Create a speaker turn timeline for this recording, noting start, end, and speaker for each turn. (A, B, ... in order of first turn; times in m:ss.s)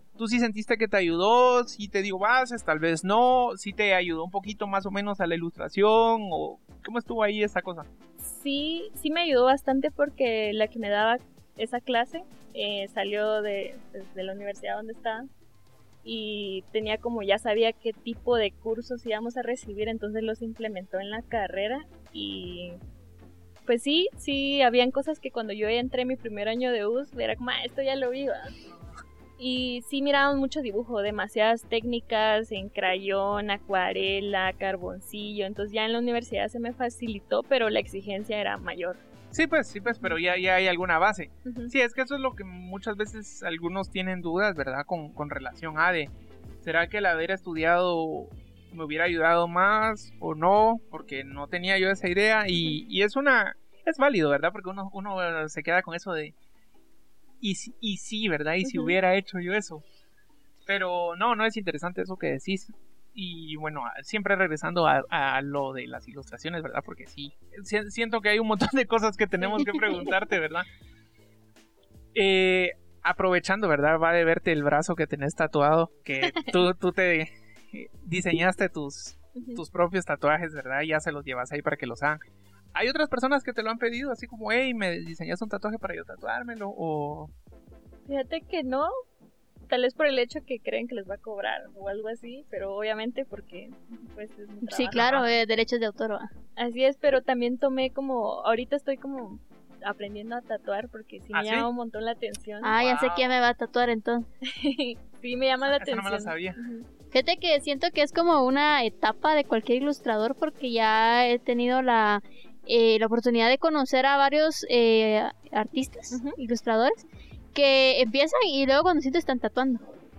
0:00.2-0:07.9 A
0:08.2-0:15.3 B
0:16.0-0:22.8 B
0:23.7-0:28.6 B
0:29.4-0:39.0 B
0:39.3-0:56.3 A
0:39.9-0:40.2 B
0:41.4-0:41.7 B
0:57.4-0:59.8 A
0:58.6-0:59.0 B
1:00.7-1:10.7 A
1:09.4-1:10.1 B
1:12.2-1:22.2 A
1:16.2-1:16.7 B
1:19.4-1:19.6 B
1:22.7-1:27.3 A
1:28.1-1:28.9 B
1:29.7-1:35.3 B
1:34.6-1:36.3 C
1:36.6-1:43.1 B
1:41.3-1:41.7 A
1:42.6-1:44.3 C
1:42.8-1:43.2 A
1:44.4-1:46.9 B
1:45.7-1:46.6 A
1:47.1-1:59.9 C
1:56.1-1:56.4 B